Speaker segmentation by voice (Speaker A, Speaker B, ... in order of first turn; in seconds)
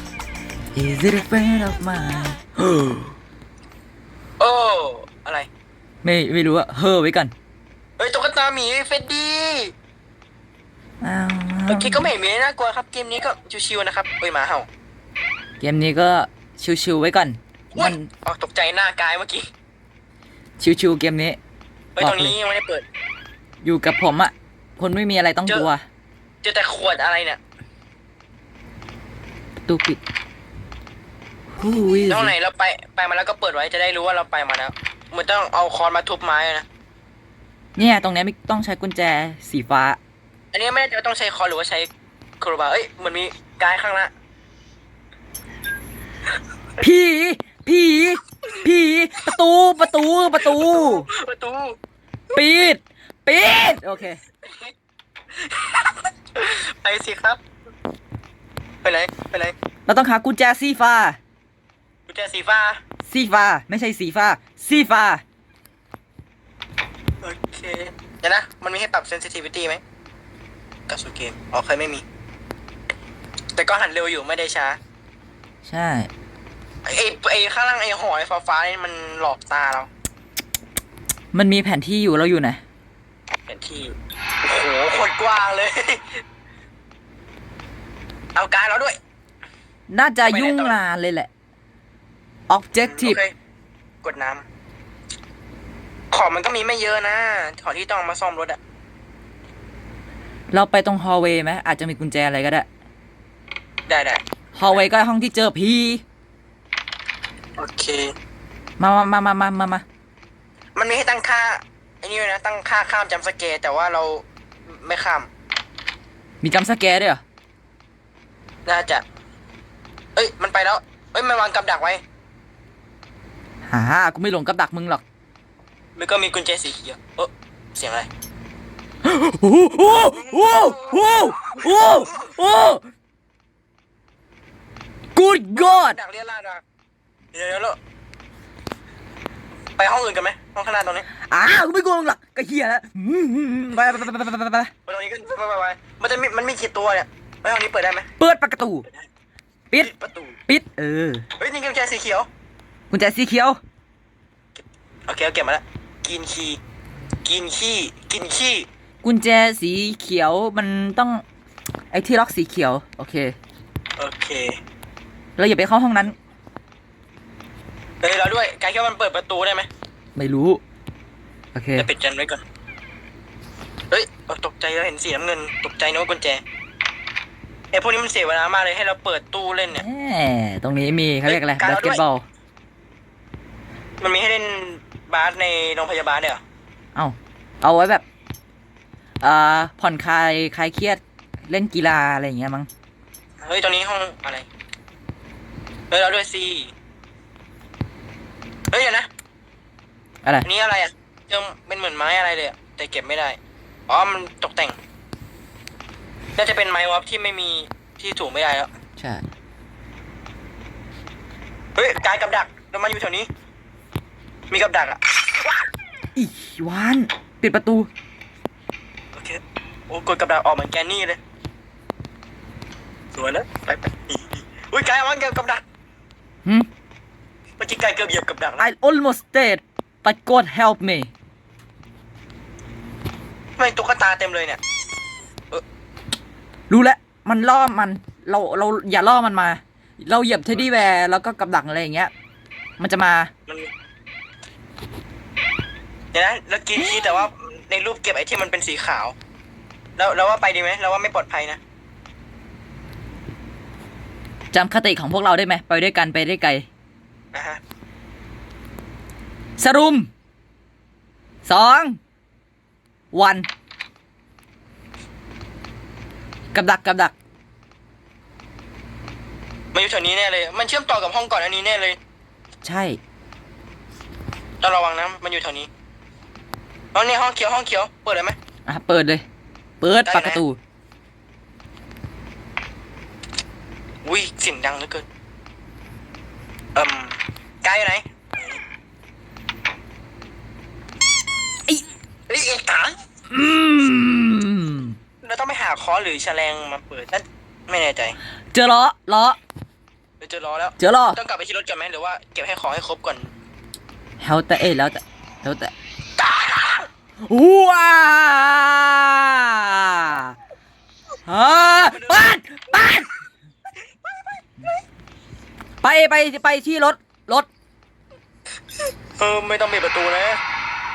Speaker A: 0.8-3.1, 6.0-7.3, 11.0-12.1, 15.6-18.1, 20.6-21.4, 22.0-22.4, 23.6-25.8, 29.6-30.0, 31.6-32.3, 37.8-40.0, 46.8-51.1, 52.3-54.2, 59.9-61.2, 63.1-65.2, 75.6-76.1, 81.3-82.6, 89.9-91.3, 92.5-93.2, 100.5-102.7, 104.5-106.0, 108.8-109.8, 116.4-117.2, 123.7-125.0, 129.0-132.8, 135.2-136.0, 141.2-144.7, 148.2-148.9, 150.5-151.3, 152.9-153.6, 159.0-161.2, 161.9-163.4, 165.4-166.2, 170.2-170.6, 171.6-171.9, 179.7-182.2, 186.9-188.0, 189.2-192.7, 209.0-209.3, 216.2-217.9, 228.6-231.1, 236.7-242.1, 242.8-243.3, 254.5-256.7, 259.6-260.1, 261.4-262.0, 263.1-263.5, 266.5-267.1, 272.6-273.0, 278.7-279.2, 279.8-280.6, 293.3-295.0, 298.5-299.4, 300.8-301.2, 304.2-305.7, 307.2-310.4, 311.3-313.1, 315.8-317.5
Speaker B: 4.4-5.5, 8.0-9.7, 11.7-14.7, 17.7-19.5, 22.0-22.9, 26.4-27.4, 32.1-36.7, 40.5-44.1, 50.4-51.8, 54.4-54.7, 55.4-57.4, 58.8-59.5, 62.1-62.8, 67.2-69.8, 70.9-72.0, 73.6-74.8, 76.9-79.9, 83.5-86.2, 88.3-89.0, 90.2-90.8, 92.8-93.3, 94.0-94.5, 96.1-98.6, 103.9-104.8, 107.6-108.1, 110.8-115.3, 118.7-119.0, 120.2-122.0, 126.0-128.1, 130.3-131.0, 135.5-136.6, 137.3-137.8, 139.8-141.1, 144.9-148.1, 149.8-150.4, 151.4-152.3, 154.6-156.6, 157.2-158.7, 164.0-164.6, 168.0-169.7, 171.8-172.4, 173.9-176.4, 177.7-179.8, 181.3-182.0, 184.0-186.4, 193.4-194.5, 195.9-196.7, 198.7-199.1, 200.4-204.8, 206.4-208.7, 211.8-213.3, 214.5-215.5, 219.2-221.2, 223.2-225.6, 227.6-228.7, 233.6-234.6, 246.1-249.2, 250.0-251.6, 257.3-257.6, 269.7-272.0, 274.6-275.7, 276.9-278.4, 280.1-280.4, 284.1-285.1, 286.8-288.6, 292.3-293.0, 295.2-298.2, 300.2-303.3, 306.2-306.9, 311.9-312.3, 319.1-320.4